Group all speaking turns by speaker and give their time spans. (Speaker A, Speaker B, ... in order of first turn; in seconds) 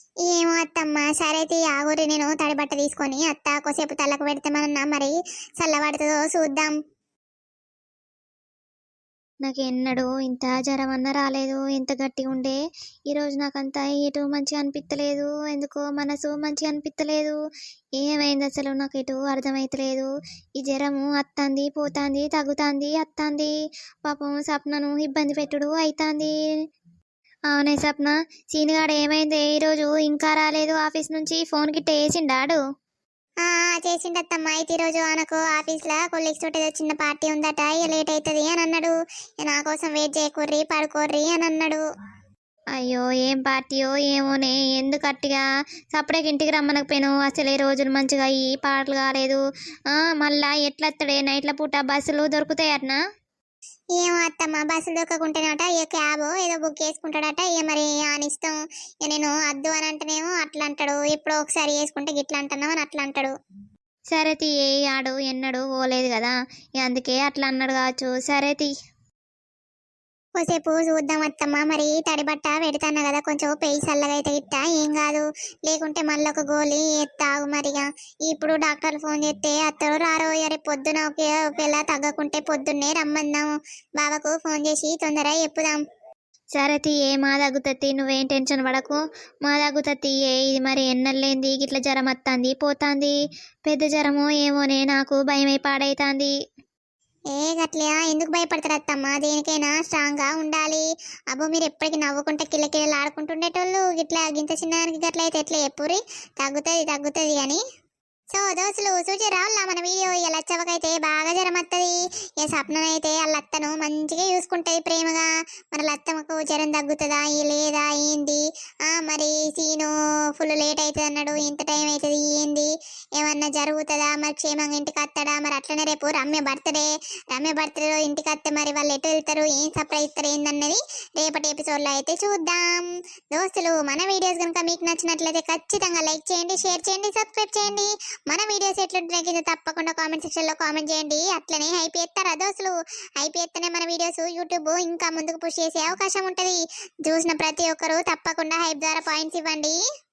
Speaker A: 0.2-6.7, 33.4-38.9, 39.4-41.8, 54.0-63.3, 70.4-85.8, 97.3-107.6, 108.3-111.9, 112.4-149.8
Speaker B: 9.4-12.6, 13.1-17.4, 18.0-23.5, 24.0-26.3, 27.5-32.6, 42.8-45.4, 45.9-53.0, 64.1-68.7, 86.5-93.1, 93.7-96.3